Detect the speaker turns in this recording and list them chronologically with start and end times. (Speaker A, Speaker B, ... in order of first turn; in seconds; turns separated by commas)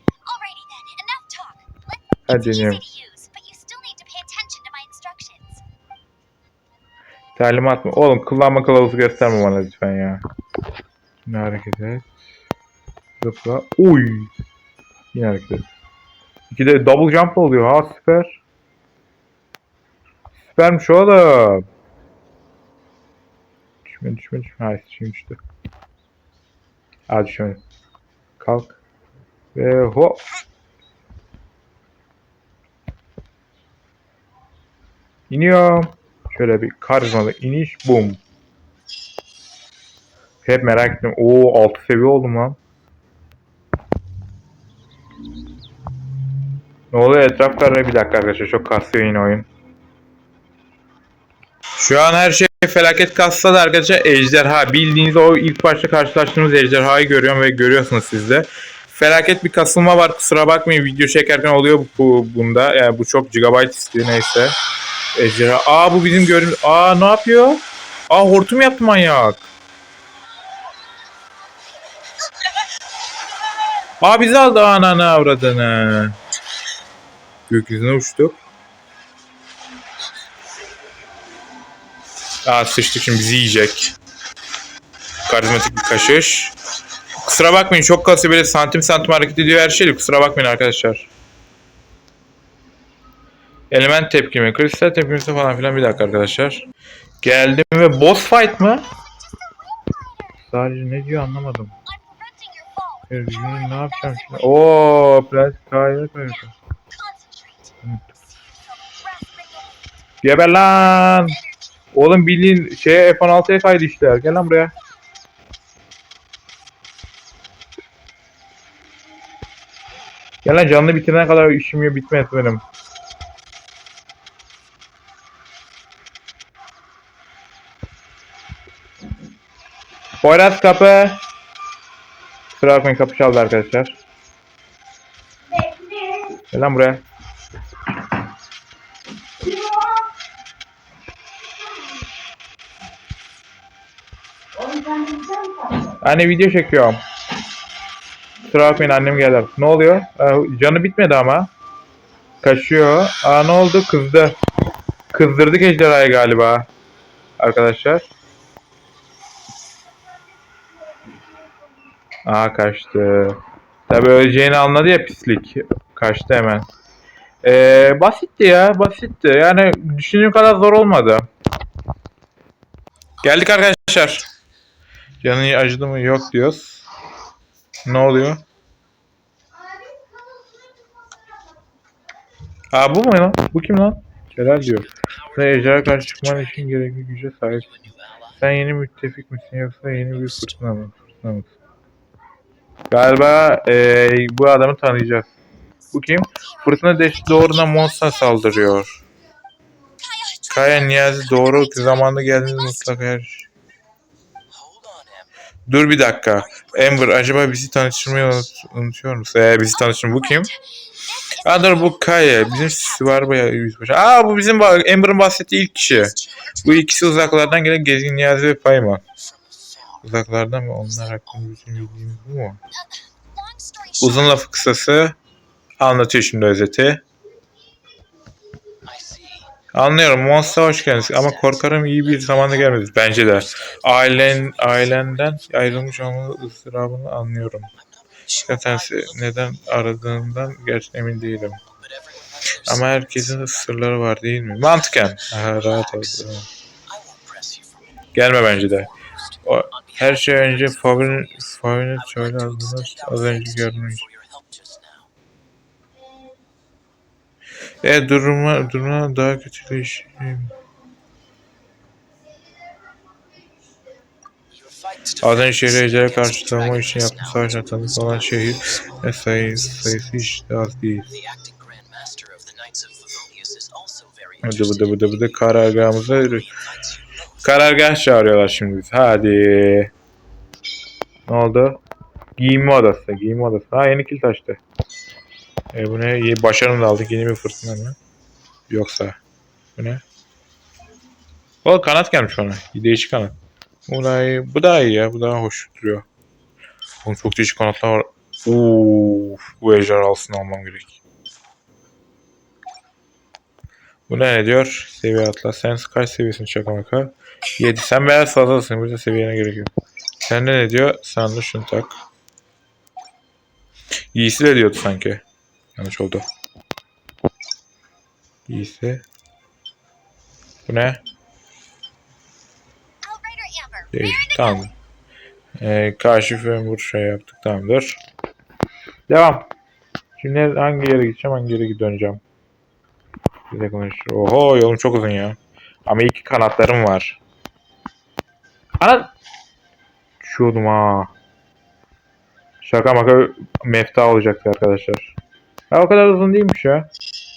Speaker A: 0.2-1.8, Speaker B: 1.9-2.1, Speaker C: 2.3-2.8, Speaker A: 2.3-5.5, Speaker C: 7.3-10.2, Speaker C: 11.2-12.1, Speaker C: 13.2-14.3, Speaker C: 15.1-15.7, Speaker C: 16.5-18.4, Speaker C: 20.5-21.6, Speaker C: 23.8-25.4, Speaker C: 27.1-27.6, Speaker C: 28.4-28.8, Speaker C: 29.5-30.2, Speaker C: 35.3-38.2, Speaker C: 40.4-42.6, Speaker C: 46.9-49.5, Speaker C: 51.8-64.5, Speaker C: 65.1-69.5, Speaker C: 74.0-76.2, Speaker C: 77.5-78.4, Speaker C: 82.4-83.9, Speaker C: 85.2-86.5, Speaker C: 87.2-91.1, Speaker C: 93.7-96.6, Speaker C: 97.2-98.8, Speaker B: 99.2-100.4, Speaker C: 100.4-101.7, Speaker B: 101.8-103.2, Speaker C: 103.1-106.5, Speaker A: 103.2-104.7, Speaker B: 106.9-109.8, Speaker C: 110.2-111.4, Speaker A: 110.8-111.5, Speaker C: 111.9-114.7, Speaker C: 120.4-122.6, Speaker C: 130.2-131.2, Speaker C: 132.6-133.9, Speaker C: 136.5-137.0, Speaker C: 146.0-147.0, Speaker C: 148.5-151.5, Speaker C: 152.4-154.4, Speaker C: 155.1-156.7, Speaker C: 157.4-158.1, Speaker C: 162.2-163.4, Speaker C: 163.9-166.7, Speaker C: 167.4-171.3, Speaker C: 173.2-174.2, Speaker C: 175.2-176.8, Speaker C: 177.8-178.4, Speaker C: 182.7-191.6, Speaker C: 192.9-195.4, Speaker C: 195.9-199.0, Speaker A: 197.3-197.8, Speaker B: 200.0-200.6, Speaker C: 200.5-203.5, Speaker A: 200.6-203.0, Speaker B: 204.6-205.2, Speaker C: 205.7-210.5, Speaker B: 210.9-211.5, Speaker C: 211.4-219.0, Speaker A: 211.5-213.3, Speaker B: 216.0-216.7, Speaker A: 216.8-217.4, Speaker B: 219.3-220.0, Speaker C: 220.0-222.6, Speaker B: 222.7-224.1, Speaker C: 224.0-225.2, Speaker A: 224.1-224.4, Speaker C: 225.8-227.0, Speaker B: 228.9-229.5, Speaker C: 229.7-237.7, Speaker B: 230.6-231.6, Speaker B: 232.3-232.8, Speaker B: 237.9-238.8, Speaker C: 238.4-241.6, Speaker B: 241.9-243.2, Speaker C: 242.6-246.4, Speaker B: 246.9-247.8, Speaker C: 248.1-248.9, Speaker C: 249.4-254.1, Speaker B: 249.9-250.5, Speaker B: 252.2-255.1, Speaker C: 257.8-260.5, Speaker B: 264.6-267.0, Speaker C: 265.2-271.1, Speaker B: 271.1-274.6, Speaker C: 274.4-276.6, Speaker C: 277.4-279.9, Speaker C: 281.2-281.8, Speaker C: 282.4-284.6, Speaker C: 285.7-288.0, Speaker C: 288.7-289.2, Speaker C: 289.8-290.0, Speaker C: 291.6-293.4, Speaker C: 293.9-296.1, Speaker C: 297.0-301.0, Speaker C: 304.1-309.7, Speaker C: 310.2-312.0, Speaker C: 314.1-315.2, Speaker C: 315.8-316.2, Speaker C: 318.5-319.0, Speaker C: 320.6-321.0, Speaker A: 323.0-324.6, Speaker B: 323.4-324.1, Speaker C: 323.9-324.7, Speaker C: 325.6-328.0, Speaker C: 329.1-329.5, Speaker C: 330.2-332.2, Speaker C: 333.5-337.2, Speaker C: 338.8-339.1, Speaker C: 340.2-341.1, Speaker C: 342.6-345.1, Speaker C: 345.7-346.9